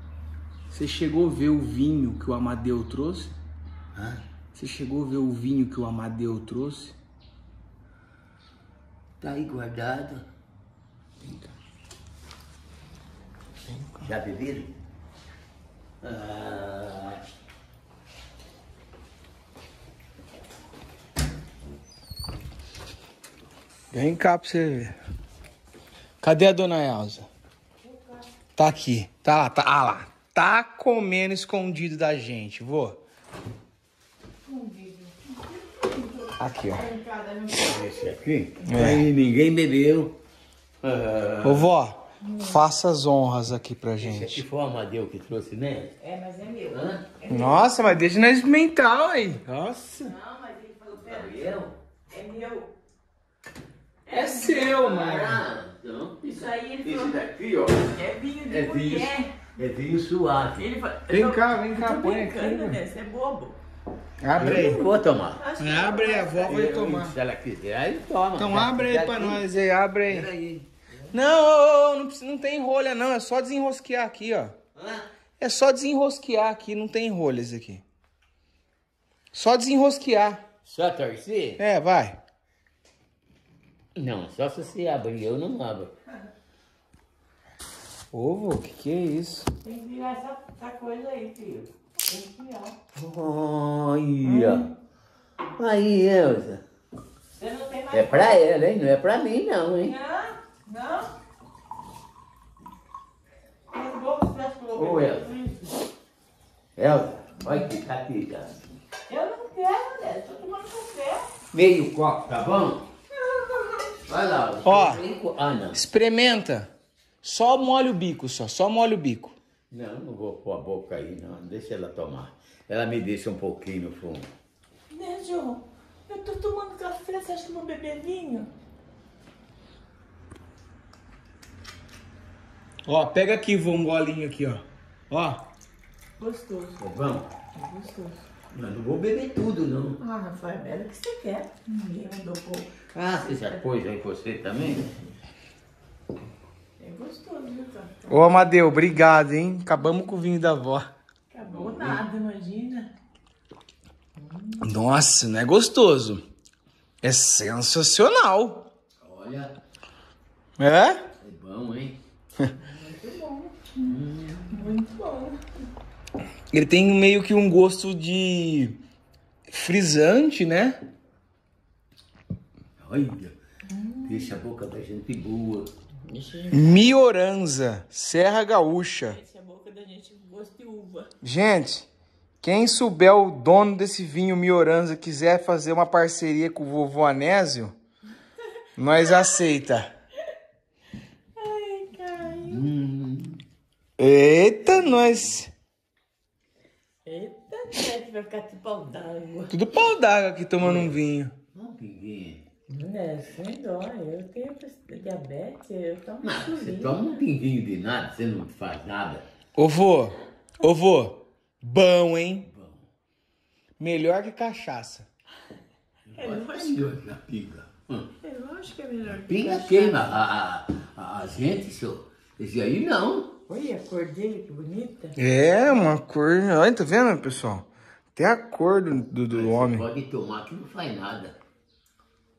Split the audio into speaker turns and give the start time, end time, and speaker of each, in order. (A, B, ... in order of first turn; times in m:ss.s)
0:00.7-0:03.3 A
0:04.0-0:04.2 B
0:04.5-0:07.0 A
0:09.2-0:10.2 B
0:13.7-0:14.1 A
0:14.0-0:14.7 B
0:16.0-0:17.2 B
0:23.9-0:25.0 A
0:26.2-0:27.3 A
0:27.8-0:28.2 C
0:28.6-0:33.0 A
0:34.5-0:37.9 C
0:36.4-0:36.8 A
0:37.5-0:40.2 B
0:38.6-0:39.1 A
0:40.8-0:41.7 B
0:41.4-0:44.4 A
0:42.2-0:42.6 C
0:44.0-0:45.9 B
0:46.0-0:47.9 C
0:46.7-0:47.0 B
0:47.3-0:50.1 A
0:50.0-0:51.6 C
0:50.9-0:51.8 B
0:52.1-0:52.7 C
0:54.1-0:54.7 C
0:54.1-0:55.4 A
0:54.6-0:57.9 B
0:56.2-0:59.3 C
0:58.5-1:00.7 B
1:00.5-1:03.6 C
1:01.1-1:02.8 A
1:04.2-1:04.8 A
1:04.3-1:05.4 B
1:05.3-1:06.6 C
1:05.6-1:07.2 A
1:06.4-1:09.4 B
1:08.4-1:10.3 A
1:10.1-1:10.7 B
1:11.1-1:14.5 A
1:14.8-1:15.0 B
1:15.4-1:17.8 A
1:19.3-1:20.4 A
1:20.6-1:21.6 B
1:21.6-1:22.2 A
1:24.0-1:25.9 B
1:28.1-1:29.5 A
1:29.6-1:32.8 C
1:32.9-1:34.7 B
1:34.2-1:34.7 C
1:35.6-1:36.6 B
1:37.3-1:38.5 C
1:37.9-1:39.9 B
1:39.8-1:41.1 C
1:43.7-1:45.8 C
1:44.8-1:45.3 B
1:46.8-1:48.6 B
1:49.1-1:51.3 C
1:51.5-1:52.8 B
1:53.4-1:53.7 C
1:54.1-1:55.8 B
1:54.6-1:55.0 A
1:55.7-1:56.7 A
1:57.2-1:59.3 A
1:59.7-2:04.3 B
2:04.9-2:08.5 C
2:12.8-2:15.4 A
2:16.2-2:16.8 C
2:16.8-2:17.3 B
2:17.5-2:18.2 C
2:18.5-2:20.0 B
2:20.0-2:22.7 C
2:22.9-2:24.9 B
2:26.8-2:28.6 C
2:28.1-2:30.9 A
2:31.3-2:32.9 C
2:31.4-2:32.0 B
2:34.2-2:34.7 C
2:34.6-2:36.2 A
2:37.0-2:38.7 A
2:39.0-2:39.5 B
2:40.6-2:41.0 A
2:41.2-2:42.0 B
2:42.6-2:43.9 C
2:43.8-2:44.6 B
2:44.5-2:45.4 C
2:46.5-2:48.8 A
2:49.5-2:50.8 A
2:52.8-2:53.3 B
2:53.7-2:54.3 C
2:54.0-2:55.7 B
2:56.0-2:56.9 C
2:56.5-2:59.2 A
2:59.0-3:01.1 C
3:01.2-3:01.9 A
3:02.4-3:07.7 A
3:08.8-3:09.9 A
3:09.0-3:09.3 C
3:11.4-3:12.7 C
3:12.4-3:13.4 B
3:14.0-3:15.5 A
3:14.9-3:15.3 B
3:17.0-3:19.5 C
3:19.5-3:21.3 A
3:20.6-3:21.0 B
3:21.5-3:22.4 B
3:22.7-3:27.2 C
3:26.2-3:29.2 B
3:29.6-3:32.5 A
3:32.4-3:32.9 B
3:33.8-3:35.0 A
3:36.1-3:38.1 B
3:36.1-3:36.8 C
3:38.2-3:40.2 C
3:39.1-3:43.3 B
3:43.5-3:45.8 C
3:45.2-3:49.8 A
3:49.3-3:51.4 B